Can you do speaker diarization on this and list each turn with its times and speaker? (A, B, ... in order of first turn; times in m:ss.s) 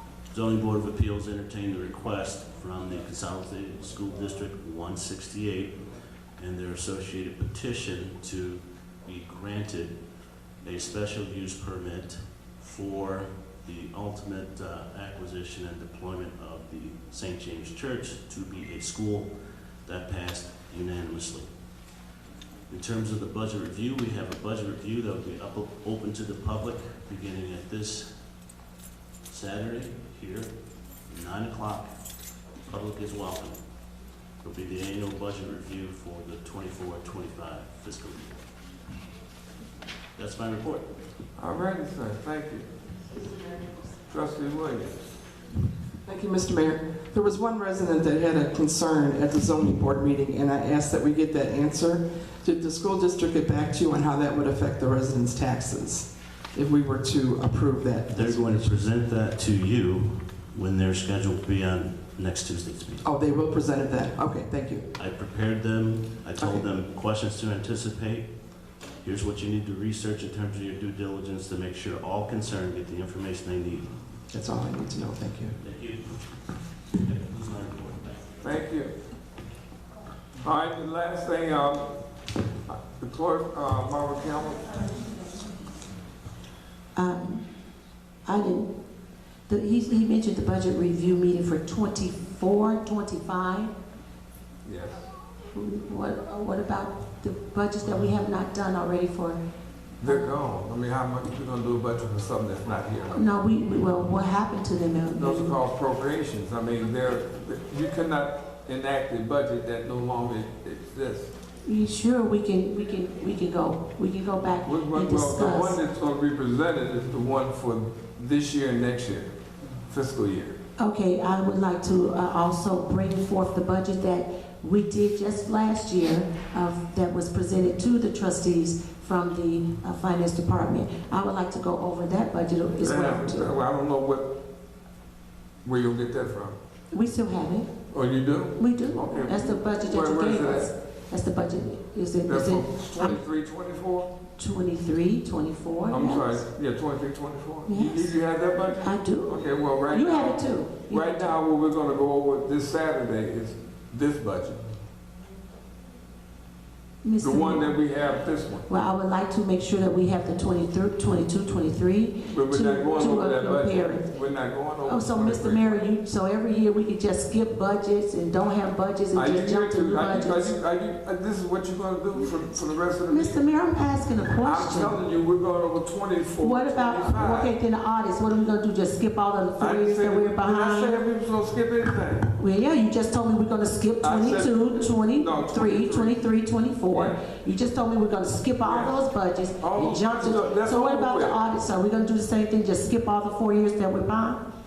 0:00.3-0:05.8 A
0:06.4-0:10.0 A
0:10.6-0:19.3 A
0:19.8-0:21.5 A
0:22.7-0:28.1 A
0:29.3-0:30.5 A
0:31.1-0:31.9 A
0:32.6-0:33.6 A
0:34.4-0:38.4 A
0:40.2-0:40.9 A
0:41.4-0:42.7 B
0:44.1-0:45.0 B
0:46.0-0:58.7 C
0:58.1-1:03.1 A
1:03.0-1:04.9 C
1:05.0-1:08.3 A
1:06.4-1:06.7 C
1:09.0-1:13.9 A
1:14.3-1:15.6 C
1:15.6-1:16.1 A
1:17.0-1:18.3 A
1:18.4-1:18.9 B
1:20.4-1:21.9 B
1:22.7-1:24.8 B
1:27.0-1:27.4 D
1:28.2-1:28.7 D
1:29.5-1:33.7 D
1:34.6-1:35.1 B
1:35.5-1:39.4 D
1:40.0-1:43.2 B
1:43.1-1:45.6 D
1:45.1-1:51.3 B
1:51.6-1:55.8 D
1:54.6-1:59.3 B
1:59.9-2:00.6 B
2:00.8-2:13.6 D
2:12.8-2:14.4 B
2:15.6-2:16.6 B
2:16.9-2:17.7 D
2:17.9-2:20.7 B
2:18.6-2:23.2 D
2:22.3-2:24.1 B
2:24.4-2:26.4 D
2:25.9-2:34.6 B
2:27.7-2:28.2 D
2:28.8-2:31.3 D
2:37.0-2:37.7 D
2:37.2-2:38.7 B
2:38.7-2:44.1 D
2:42.3-2:45.8 B
2:44.8-2:50.6 D
2:49.1-2:53.4 B
2:53.1-2:55.0 D
2:54.4-2:57.5 B
2:56.4-3:01.0 D
2:59.6-3:02.4 B
3:02.4-3:14.4 D
3:04.0-3:06.2 B
3:06.9-3:07.4 B
3:08.6-3:09.0 B
3:09.6-3:11.4 B